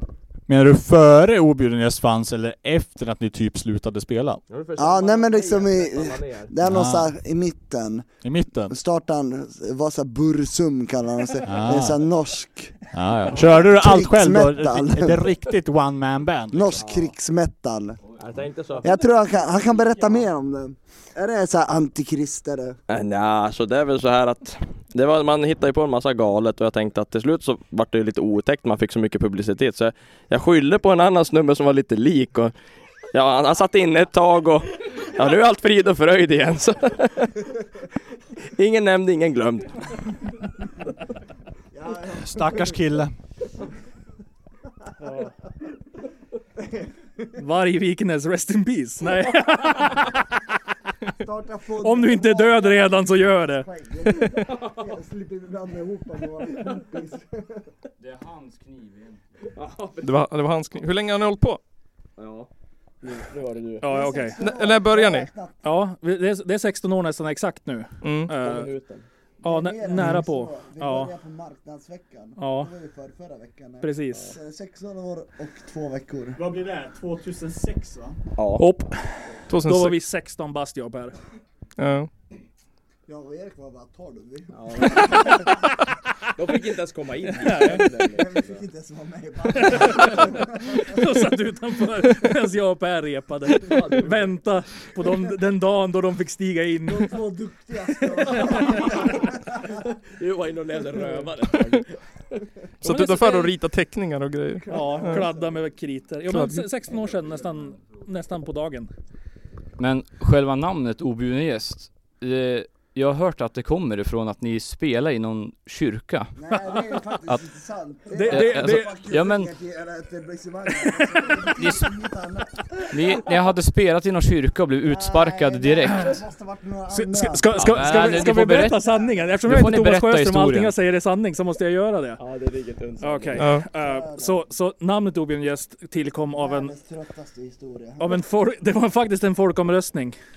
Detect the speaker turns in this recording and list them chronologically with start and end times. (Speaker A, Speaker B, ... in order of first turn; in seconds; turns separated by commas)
Speaker A: 0.5-4.4, Speaker B: 4.5-6.5, Speaker C: 4.8-15.2, Speaker A: 6.6-7.1, Speaker A: 8.2-8.7, Speaker A: 11.4-12.0, Speaker A: 12.9-17.1, Speaker C: 16.5-18.0, Speaker B: 18.2-18.9, Speaker C: 18.8-22.8, Speaker B: 22.9-32.5, Speaker B: 33.1-37.4, Speaker B: 38.6-40.0, Speaker C: 41.7-42.8, Speaker A: 42.1-43.1, Speaker D: 47.4-50.2, Speaker C: 51.2-57.7, Speaker D: 51.8-53.7, Speaker B: 59.5-60.1, Speaker E: 60.0-61.6, Speaker B: 62.2-62.5, Speaker B: 63.0-63.8, Speaker D: 63.8-64.4, Speaker C: 63.8-65.6, Speaker E: 64.4-65.3, Speaker D: 65.6-68.7, Speaker E: 68.0-68.3, Speaker B: 68.4-69.0, Speaker C: 69.4-76.5, Speaker D: 69.4-71.1, Speaker D: 72.4-72.7, Speaker D: 73.8-74.3, Speaker B: 78.4-78.6, Speaker D: 78.6-81.2, Speaker E: 79.5-80.0, Speaker E: 81.8-82.1, Speaker C: 83.1-85.6, Speaker B: 84.5-85.3, Speaker B: 86.3-88.6, Speaker D: 87.3-87.9, Speaker C: 88.2-91.0, Speaker D: 89.5-97.1, Speaker B: 93.6-94.3, Speaker C: 96.9-99.7, Speaker B: 98.3-99.0, Speaker B: 99.9-102.4, Speaker E: 102.8-105.2, Speaker D: 102.8-103.5, Speaker C: 104.7-105.5, Speaker D: 104.7-108.9, Speaker E: 106.3-106.6, Speaker F: 109.8-117.5, Speaker C: 116.3-123.2, Speaker D: 118.1-119.0, Speaker F: 118.2-119.6, Speaker F: 121.5-122.0, Speaker F: 122.9-126.1, Speaker C: 124.9-127.8, Speaker D: 125.9-126.2, Speaker D: 126.9-132.2, Speaker F: 127.5-128.8, Speaker F: 129.4-130.7, Speaker B: 132.2-133.4, Speaker D: 133.0-136.7, Speaker E: 133.4-133.7, Speaker C: 133.7-134.4, Speaker C: 136.4-138.2, Speaker D: 138.0-140.2